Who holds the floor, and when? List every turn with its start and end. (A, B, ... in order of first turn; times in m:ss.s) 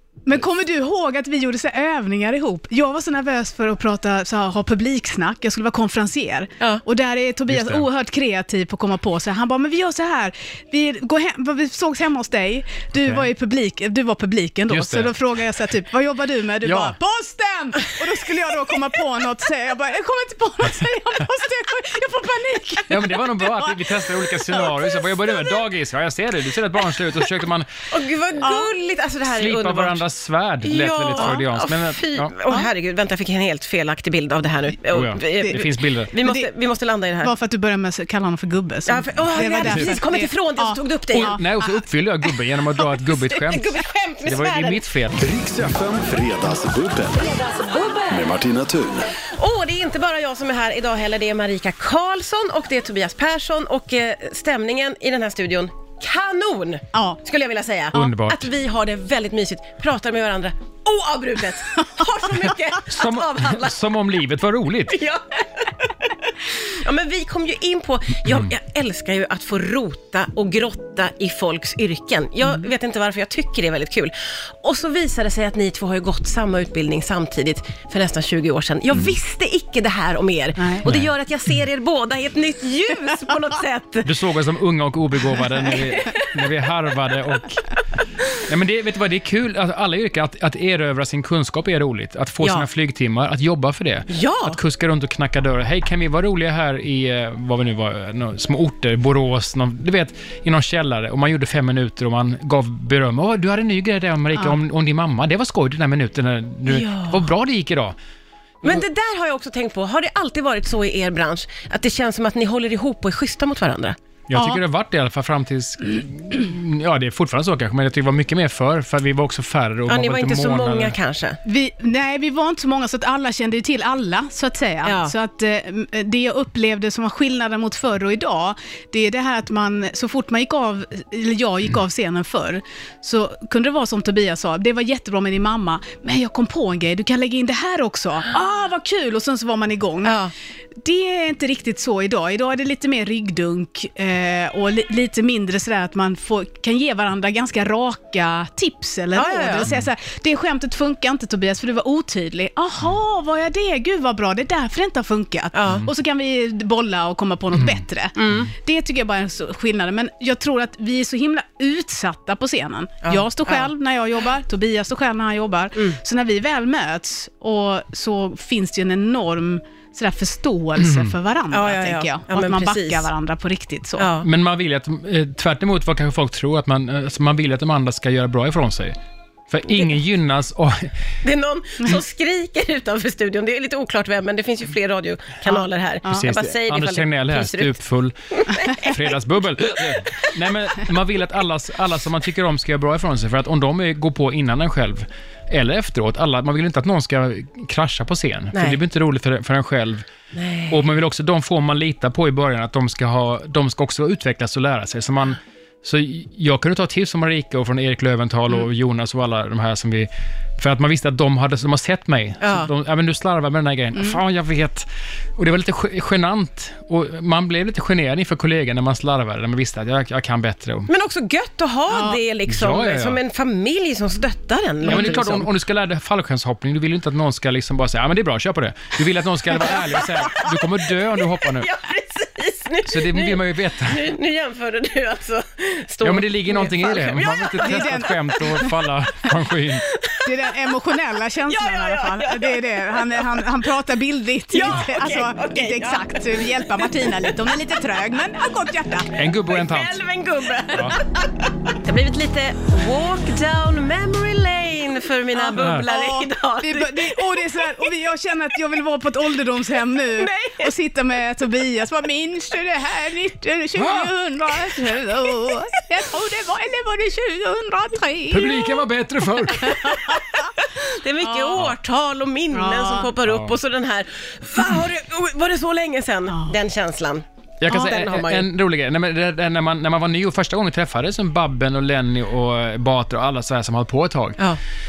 0:00.2-0:23.8 A
0:07.5-0:07.8 B
0:13.0-0:13.3 B
0:14.7-0:15.2 B
0:16.6-0:16.9 B
0:22.9-0:27.7 B
0:27.9-0:30.0 C
0:28.4-0:28.7 A
0:29.3-0:32.3 B
0:30.6-0:37.3 C
0:34.9-0:36.1 B
0:36.2-0:36.5 A
0:37.2-0:41.7 A
0:38.9-0:41.4 C
0:39.6-0:40.0 B
0:41.1-0:45.3 B
0:42.9-0:44.8 C
0:45.2-0:47.4 D
0:47.4-0:48.1 C
0:48.1-0:49.2 D
0:49.3-1:03.8 C
0:56.9-0:57.2 A
0:57.9-0:58.5 B
1:02.9-1:05.0 B
1:04.9-1:24.1 C
1:20.6-1:20.8 A
1:20.8-1:21.1 B
1:24.0-1:27.7 B
1:25.7-1:26.3 C
1:28.4-1:48.0 B
1:32.4-1:32.7 C
1:34.1-1:34.6 C
1:46.7-1:47.2 C
1:48.6-1:54.0 C
1:54.3-2:00.9 B
1:59.9-2:01.4 C
2:01.4-2:20.2 A
2:04.8-2:05.1 C
2:20.0-2:20.3 C
2:20.8-2:54.1 A
2:29.1-2:29.7 C
2:35.5-2:35.8 C
2:37.5-2:37.8 B
2:38.2-2:38.5 C
2:43.0-2:43.7 C
2:50.8-2:51.1 B
2:51.5-2:53.1 C
2:54.0-2:54.3 C
2:54.2-2:59.0 B
2:59.5-3:00.9 B
3:01.2-3:07.8 C
3:06.1-3:08.2 B
3:08.3-3:09.0 C
3:08.8-3:20.1 B
3:18.5-3:18.8 C
3:20.3-3:20.8 C
3:20.7-3:40.9 B
3:32.4-3:32.7 C
3:40.9-3:45.5 C
3:41.9-3:42.2 A
3:42.5-3:43.2 B
3:44.8-3:51.7 B
3:49.6-3:58.7 C
3:52.8-3:54.1 B
3:56.0-3:59.9 B
3:57.6-3:58.7 A
3:59.8-4:00.8 C
4:00.2-4:09.1 A
4:01.5-4:03.5 C
4:04.5-4:07.3 C
4:09.1-4:10.0 B
4:09.4-4:17.9 C
4:10.7-4:11.0 B
4:15.3-4:28.8 A
4:15.5-4:15.9 B
4:20.1-4:20.7 C
4:23.8-4:24.0 B
4:25.2-4:25.5 C
4:28.3-4:30.1 B
4:29.6-4:30.5 A
4:30.1-4:38.5 C
4:31.2-4:31.6 A
4:32.5-4:33.1 A
4:33.2-4:33.6 B
4:37.6-4:44.4 B